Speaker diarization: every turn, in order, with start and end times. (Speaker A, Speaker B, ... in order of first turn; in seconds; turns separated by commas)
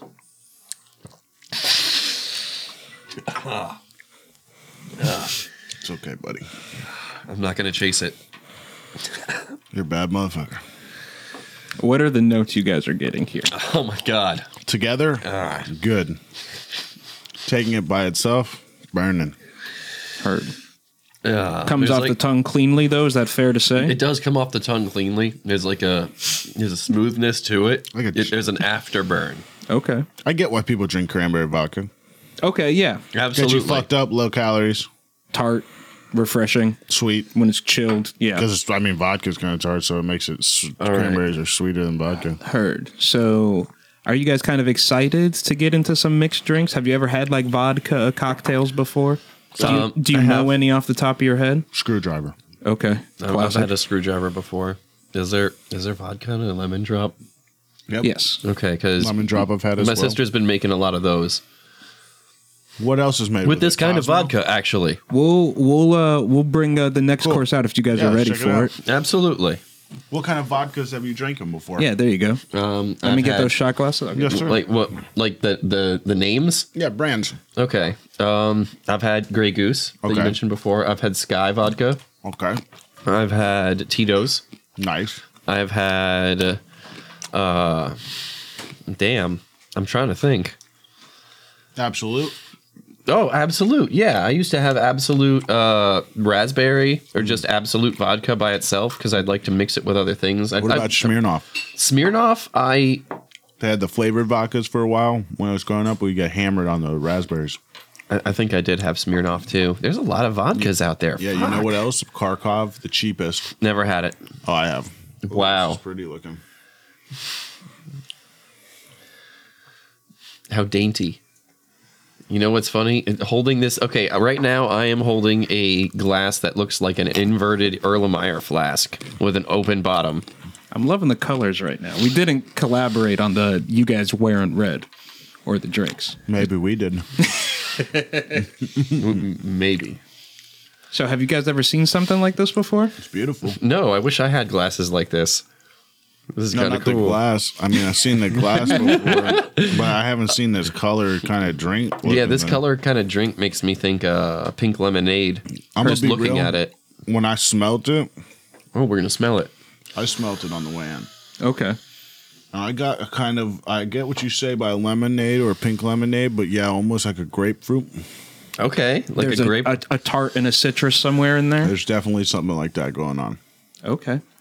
Speaker A: 3.2-3.8, Speaker A: 5.0-5.4, Speaker B: 5.8-6.5, Speaker A: 7.2-8.2, Speaker B: 9.7-10.6, Speaker C: 11.8-13.5, Speaker A: 13.5-14.5, Speaker B: 14.7-16.2, Speaker A: 15.2-15.7, Speaker B: 17.4-19.4, Speaker C: 20.2-20.5, Speaker A: 21.2-22.1, Speaker C: 21.6-24.0, Speaker A: 23.8-29.4, Speaker B: 27.9-28.3, Speaker C: 29.7-30.1, Speaker B: 30.2-31.9, Speaker C: 32.4-33.0, Speaker A: 33.1-33.9, Speaker B: 33.3-34.9, Speaker C: 35.3-36.8, Speaker B: 36.9-37.3, Speaker C: 37.3-38.5, Speaker B: 38.3-42.4, Speaker A: 40.8-41.2, Speaker C: 42.4-51.6, Speaker B: 49.5-50.4, Speaker A: 49.6-50.5, Speaker B: 51.7-52.3, Speaker C: 52.6-53.7, Speaker A: 53.2-57.1, Speaker C: 58.0-58.4, Speaker A: 58.4-61.4, Speaker B: 59.0-60.2, Speaker B: 62.8-64.3, Speaker A: 63.4-65.0, Speaker C: 65.1-68.7, Speaker B: 67.9-68.7, Speaker A: 68.8-69.6, Speaker B: 70.1-71.9, Speaker C: 71.8-72.4, Speaker A: 72.5-73.5, Speaker C: 73.0-74.5, Speaker B: 74.1-74.7, Speaker A: 74.3-76.7, Speaker B: 76.7-77.4, Speaker A: 77.5-82.0, Speaker B: 80.0-80.4, Speaker B: 82.2-82.6, Speaker A: 83.0-84.4, Speaker B: 84.8-85.2, Speaker A: 85.5-86.6, Speaker A: 87.3-88.0, Speaker A: 88.9-90.5, Speaker B: 91.8-92.3, Speaker A: 93.1-101.1, Speaker B: 100.6-101.5, Speaker A: 101.7-103.0, Speaker B: 103.6-107.6, Speaker A: 108.1-111.7, Speaker B: 110.5-113.5, Speaker A: 113.6-114.2, Speaker B: 114.4-116.4, Speaker A: 115.2-115.8, Speaker A: 120.5-121.2, Speaker A: 122.3-130.2, Speaker C: 130.7-134.9, Speaker C: 135.4-136.2, Speaker B: 136.3-137.1, Speaker C: 137.2-138.4, Speaker B: 138.8-139.1, Speaker A: 138.9-140.0, Speaker C: 140.9-142.9, Speaker B: 143.0-143.6, Speaker A: 143.6-145.4, Speaker A: 146.3-147.2, Speaker B: 146.5-152.6, Speaker A: 148.4-149.9, Speaker A: 152.0-156.7, Speaker B: 155.7-156.5, Speaker B: 157.1-158.1, Speaker A: 158.7-159.5, Speaker B: 159.9-161.1, Speaker C: 161.4-161.8, Speaker B: 162.5-168.1, Speaker A: 168.6-169.8, Speaker C: 169.2-171.7, Speaker B: 171.6-173.4, Speaker C: 173.8-174.2